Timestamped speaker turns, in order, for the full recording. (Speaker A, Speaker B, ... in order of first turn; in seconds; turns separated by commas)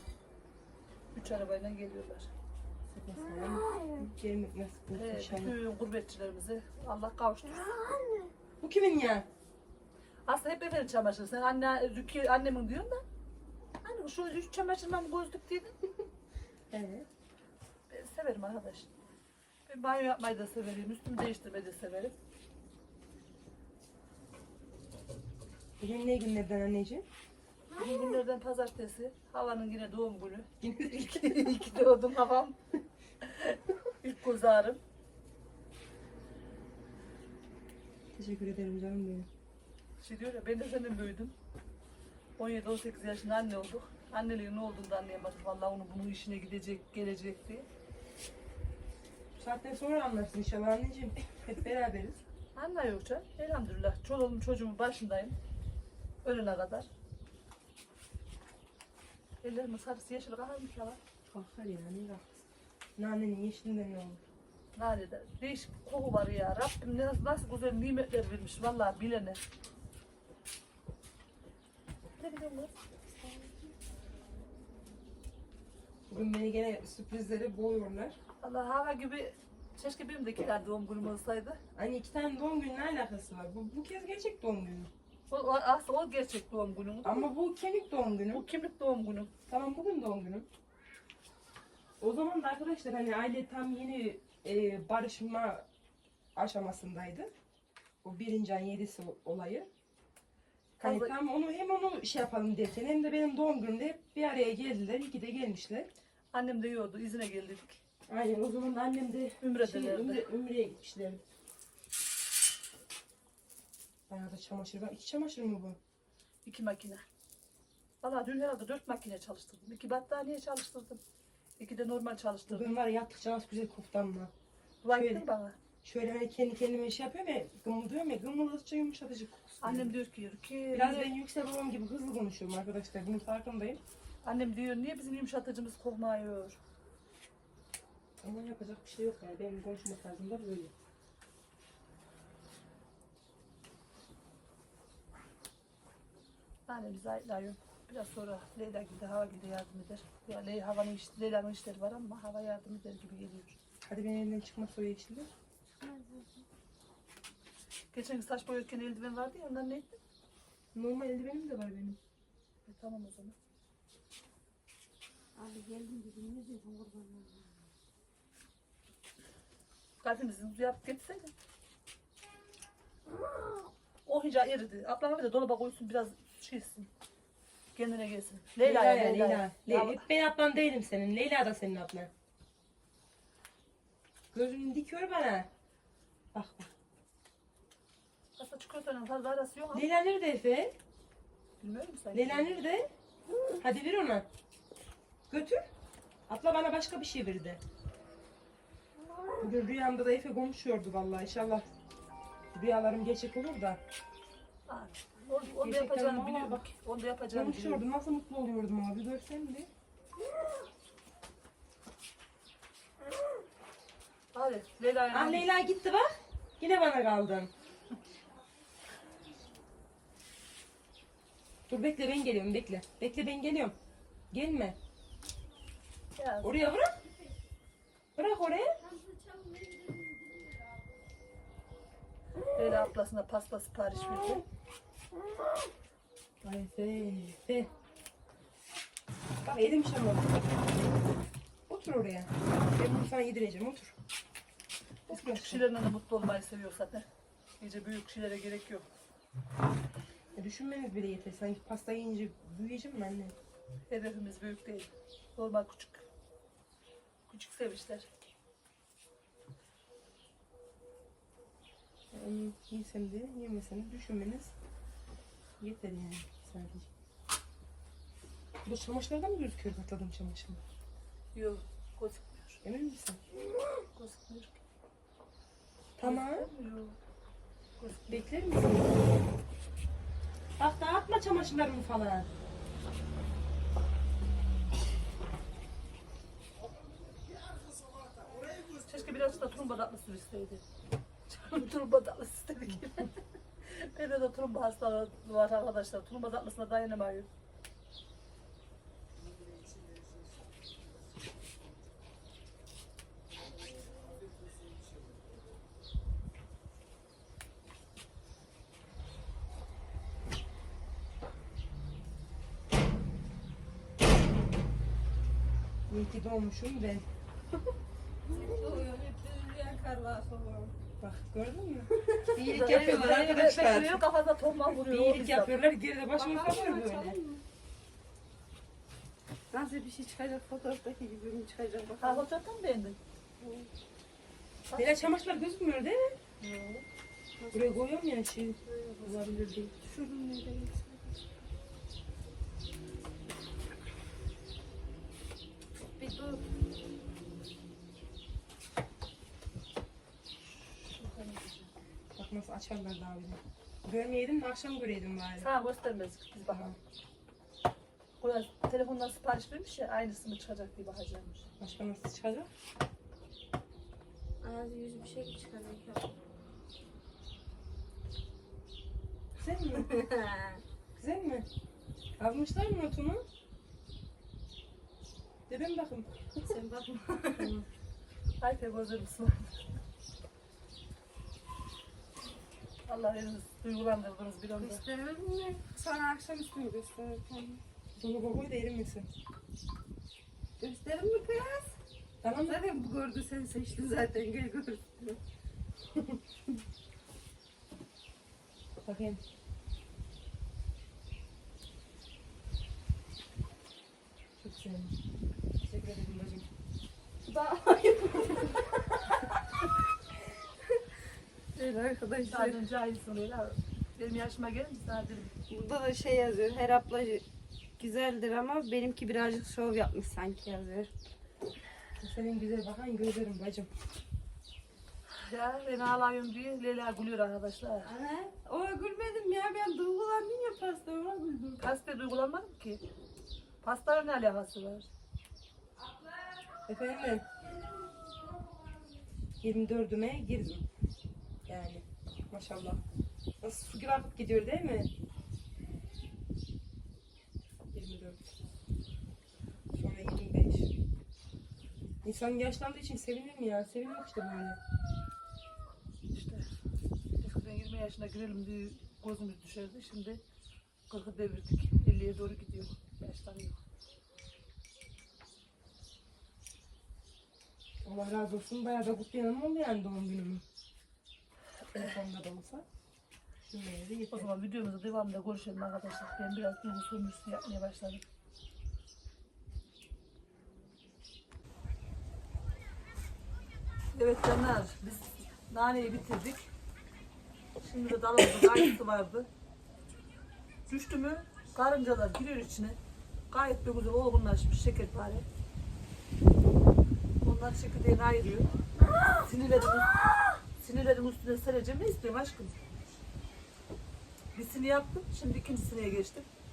Speaker A: 1.1-2.3, Speaker B: 2.9-5.5, Speaker A: 4.9-7.8, Speaker B: 8.6-9.3, Speaker A: 10.3-13.0, Speaker A: 13.8-15.7, Speaker B: 16.7-17.1, Speaker A: 17.9-18.9, Speaker A: 19.7-22.1, Speaker B: 25.8-27.1, Speaker A: 27.8-32.6, Speaker B: 30.6-31.6, Speaker A: 33.2-34.8, Speaker B: 38.1-39.3, Speaker A: 40.0-41.4, Speaker A: 42.4-47.7, Speaker B: 49.4-52.2, Speaker A: 52.5-55.4, Speaker A: 56.2-56.9, Speaker A: 59.4-61.0, Speaker B: 61.3-62.4, Speaker B: 63.0-64.2, Speaker A: 64.8-69.4, Speaker A: 72.2-72.8, Speaker B: 76.1-78.2, Speaker A: 78.4-81.6, Speaker B: 81.8-84.9, Speaker A: 85.3-87.3, Speaker B: 87.0-88.5, Speaker A: 88.3-89.3, Speaker B: 89.5-90.5, Speaker B: 92.0-95.7, Speaker B: 96.3-97.3, Speaker B: 98.0-99.7, Speaker B: 100.8-105.9, Speaker A: 100.8-101.1, Speaker A: 106.3-107.8, Speaker B: 108.1-111.2, Speaker A: 109.4-110.2, Speaker B: 114.1-115.8, Speaker A: 116.5-117.1, Speaker A: 118.0-121.0, Speaker A: 121.6-122.7, Speaker B: 122.5-124.3, Speaker A: 124.8-125.6, Speaker B: 124.9-125.2, Speaker B: 125.8-129.9, Speaker A: 129.6-131.1, Speaker B: 130.7-133.8, Speaker A: 134.2-136.6, Speaker B: 138.2-140.7, Speaker A: 146.7-153.6, Speaker B: 153.8-155.3, Speaker C: 155.8-156.4, Speaker A: 157.9-160.0, Speaker B: 160.7-162.0, Speaker A: 162.7-163.3, Speaker C: 165.4-167.5, Speaker A: 170.0-171.3, Speaker A: 174.1-176.9, Speaker A: 177.8-180.0, Speaker B: 178.6-182.1, Speaker B: 184.3-185.5, Speaker B: 186.3-186.7, Speaker A: 188.4-189.9, Speaker B: 189.7-190.8, Speaker A: 191.6-192.5, Speaker B: 192.1-192.9, Speaker B: 193.6-194.3, Speaker B: 195.3-195.7, Speaker B: 196.3-197.6, Speaker B: 199.4-201.7, Speaker B: 202.5-203.8, Speaker A: 204.7-207.8, Speaker B: 205.6-206.7, Speaker B: 207.3-209.7, Speaker A: 214.3-215.5, Speaker B: 215.1-217.5, Speaker B: 221.7-223.8, Speaker B: 224.3-224.8, Speaker A: 226.2-226.6, Speaker B: 226.4-227.0, Speaker B: 228.2-228.8, Speaker A: 232.6-234.4, Speaker B: 236.4-237.7, Speaker B: 239.4-240.4, Speaker B: 241.7-243.9, Speaker B: 245.1-245.7, Speaker A: 245.1-247.1, Speaker A: 247.6-248.9, Speaker B: 250.3-253.3, Speaker A: 253.9-256.1, Speaker A: 257.3-258.1, Speaker B: 262.1-264.5, Speaker B: 265.6-266.9, Speaker B: 268.6-270.6, Speaker A: 271.3-272.6, Speaker B: 272.6-273.2, Speaker A: 273.9-274.6, Speaker B: 276.0-276.5, Speaker A: 276.0-277.0, Speaker A: 277.8-278.2, Speaker B: 278.1-279.1, Speaker B: 280.6-282.3, Speaker A: 288.7-290.6, Speaker A: 291.3-297.3, Speaker B: 315.9-317.1, Speaker C: 318.3-320.7, Speaker B: 321.0-324.1, Speaker C: 321.9-322.8, Speaker A: 322.4-325.6, Speaker B: 324.8-327.2, Speaker C: 326.1-327.4, Speaker C: 329.5-332.3, Speaker A: 332.0-333.0, Speaker C: 333.4-333.7, Speaker A: 334.7-335.0, Speaker B: 334.8-336.2, Speaker A: 336.4-336.9, Speaker C: 337.4-337.8, Speaker B: 337.5-339.7, Speaker A: 338.7-339.5, Speaker C: 339.8-341.2, Speaker C: 346.0-346.4, Speaker A: 350.8-351.7, Speaker B: 352.1-355.5, Speaker A: 355.4-356.7, Speaker B: 356.5-356.8, Speaker A: 358.2-361.5, Speaker B: 361.6-362.5, Speaker C: 364.4-366.1, Speaker B: 369.4-370.1, Speaker C: 369.9-370.6, Speaker B: 371.0-371.5, Speaker B: 372.2-373.2, Speaker B: 375.5-376.1, Speaker C: 376.4-377.6, Speaker A: 378.4-379.7, Speaker A: 382.9-384.8, Speaker C: 384.6-387.6, Speaker B: 387.9-389.1, Speaker C: 390.6-391.8, Speaker B: 392.2-392.6, Speaker C: 392.5-395.2, Speaker B: 398.8-399.2, Speaker B: 404.4-404.9, Speaker B: 405.6-406.5, Speaker C: 407.3-409.4, Speaker C: 411.6-412.6, Speaker A: 412.3-415.3, Speaker C: 415.5-417.2, Speaker C: 417.8-420.9, Speaker B: 422.0-423.7, Speaker A: 425.1-427.9, Speaker C: 427.8-431.6, Speaker A: 431.6-432.8, Speaker A: 433.6-434.9, Speaker B: 436.7-437.3, Speaker C: 437.8-438.8, Speaker B: 439.4-440.7, Speaker B: 441.5-442.8, Speaker B: 443.4-444.9, Speaker B: 447.7-448.3, Speaker B: 449.7-450.7, Speaker B: 452.0-454.6, Speaker A: 456.1-456.5, Speaker A: 457.2-460.2, Speaker A: 460.9-463.6, Speaker B: 467.8-470.4, Speaker B: 471.7-472.6, Speaker B: 473.5-474.3, Speaker A: 474.1-478.0, Speaker A: 483.9-486.5, Speaker A: 487.6-489.3, Speaker A: 490.7-492.8, Speaker A: 493.3-495.3, Speaker A: 497.2-498.5, Speaker A: 499.2-500.0, Speaker A: 500.6-502.6, Speaker A: 504.4-506.3